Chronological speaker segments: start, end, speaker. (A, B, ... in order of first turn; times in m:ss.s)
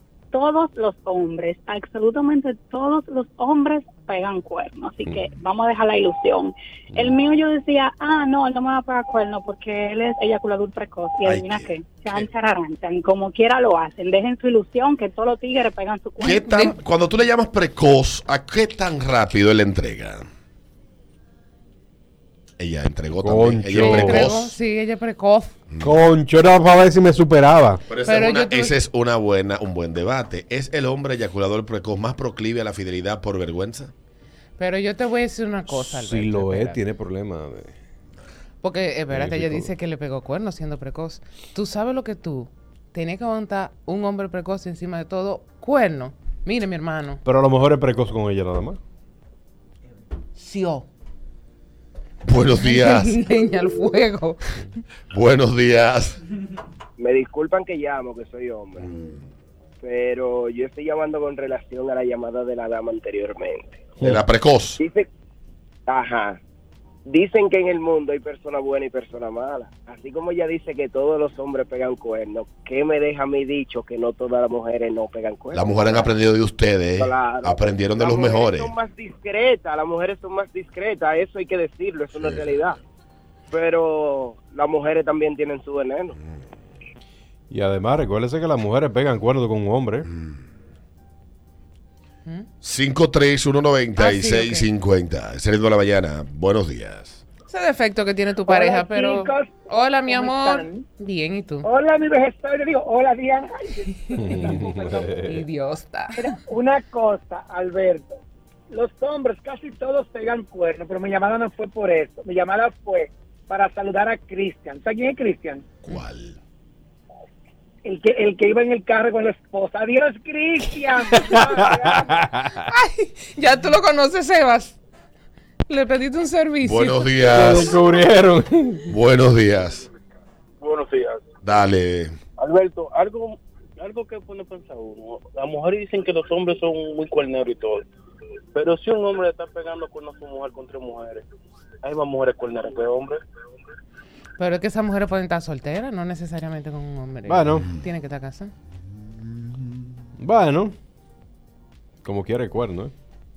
0:00.3-0:16.6 A
0:11.2-0:12.3 B
0:16.2-0:20.2 B
0:22.6-0:24.6 B
0:23.2-0:24.3 C
0:23.7-0:25.6 D
0:25.7-0:26.0 B
0:25.8-0:27.8 C
0:27.9-0:33.9 B
0:28.0-0:28.8 D
0:34.6-0:36.8 D
0:35.7-0:37.8 C
0:38.6-0:47.2 D
0:39.1-0:39.7 C
0:47.2-0:48.8 C
0:50.4-0:50.9 D
0:52.2-0:53.2 B
0:52.5-0:54.6 D
0:55.1-0:56.2 B
0:57.0-0:58.9 E
0:59.8-1:03.8 E
1:04.0-1:04.8 B
1:04.8-1:05.1 E
1:05.9-1:06.4 E
1:07.1-1:16.1 E
1:15.5-1:18.7 B
1:17.0-1:22.8 E
1:22.2-1:22.6 B
1:23.5-1:26.1 E
1:27.5-1:30.1 C
1:32.6-1:37.2 B
1:34.0-1:34.7 D
1:37.5-1:41.7 D
1:38.5-1:40.8 F
1:41.6-1:44.6 F
1:44.1-1:46.4 D
1:44.2-1:45.4 C
1:46.5-1:48.2 F
1:48.7-1:55.6 F
1:55.8-1:56.4 B
1:57.8-2:02.0 F
2:01.2-2:02.6 C
2:02.7-2:04.8 D
2:05.7-2:07.6 D
2:06.6-2:07.8 B
2:07.3-2:08.9 C
2:08.9-2:09.8 B
2:10.6-2:11.2 G
2:11.4-2:12.2 B
2:12.4-2:17.8 G
2:18.5-2:21.2 G
2:21.8-2:23.2 G
2:24.4-2:28.5 D
2:27.3-2:27.7 C
2:30.2-2:30.7 C
2:32.0-2:32.9 C